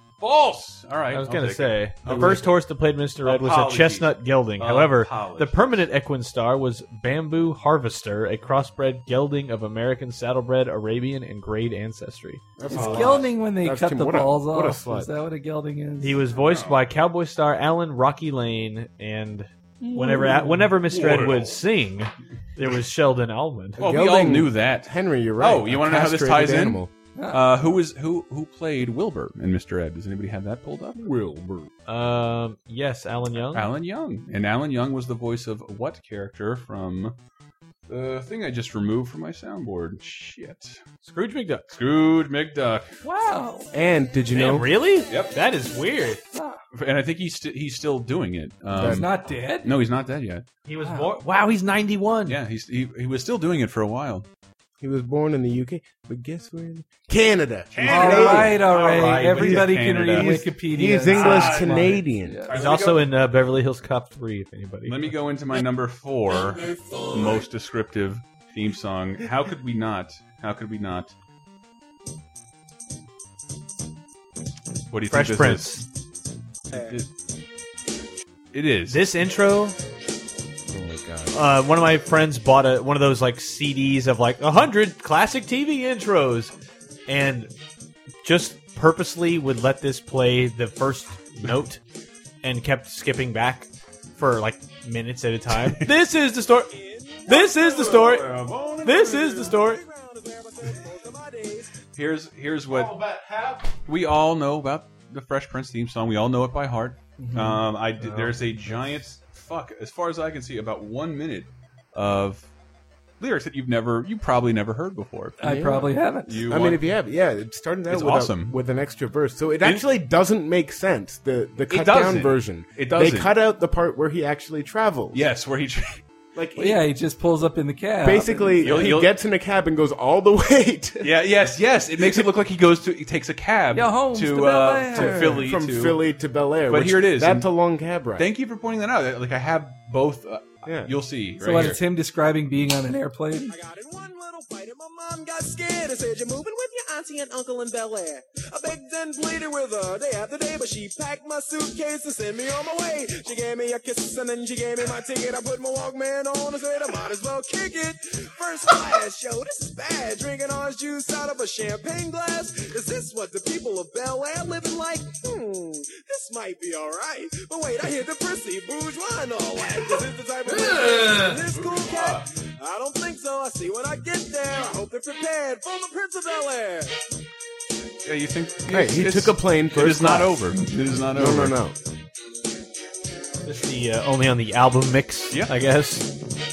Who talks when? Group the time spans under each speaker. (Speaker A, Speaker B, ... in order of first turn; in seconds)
Speaker A: 0.2-2.5, 3.2-5.8, 16.3-16.8, 20.8-21.6, 23.8-31.7, 33.5-37.1, 37.9-40.8, 41.7-43.0, 46.7-50.5, 52.2-54.2, 57.7-60.5, 61.1-61.9, 62.5-63.1, 64.8-71.1, 74.9-75.8, 76.7-77.1, 78.5-79.0, 97.8-99.6, 101.9-103.0, 103.8-112.5, 113.2-115.4, 116.2-116.9, 117.9-118.5, 121.7-123.3, 125.1-126.0, 128.6-129.1, 131.0-136.0, 136.7-137.5, 138.2-141.8, 170.5-172.2, 178.0-181.5
Speaker B: 1.1-12.4, 16.0-23.8, 31.9-33.7, 41.0-41.6, 44.3-46.2, 50.6-52.4, 62.5-65.2, 75.1-75.8, 78.9-79.8, 81.3-86.5, 87.1-87.5, 88.2-91.8, 92.4-96.7, 97.2-99.8, 108.0-108.3, 183.4-186.1
Speaker C: 2.0-2.4, 12.6-15.1, 23.8-26.9, 43.7-44.7, 48.7-49.1, 54.8-58.6, 59.2-62.4, 80.7-81.4, 103.0-103.5, 115.4-125.2, 126.3-126.8, 128.0-131.3, 132.0-132.3, 134.9-138.3, 140.6-140.9, 178.7-180.4, 181.1-181.8
Speaker D: 12.7-16.2, 19.8-20.7, 27.2-27.8, 43.0-43.7, 46.3-46.6, 48.8-49.7, 50.8-51.1, 57.8-62.5, 107.2-107.6, 115.4-116.4, 126.6-128.9, 133.7-135.4, 141.4-143.5
Speaker E: 96.7-98.1, 99.6-101.7, 143.5-176.9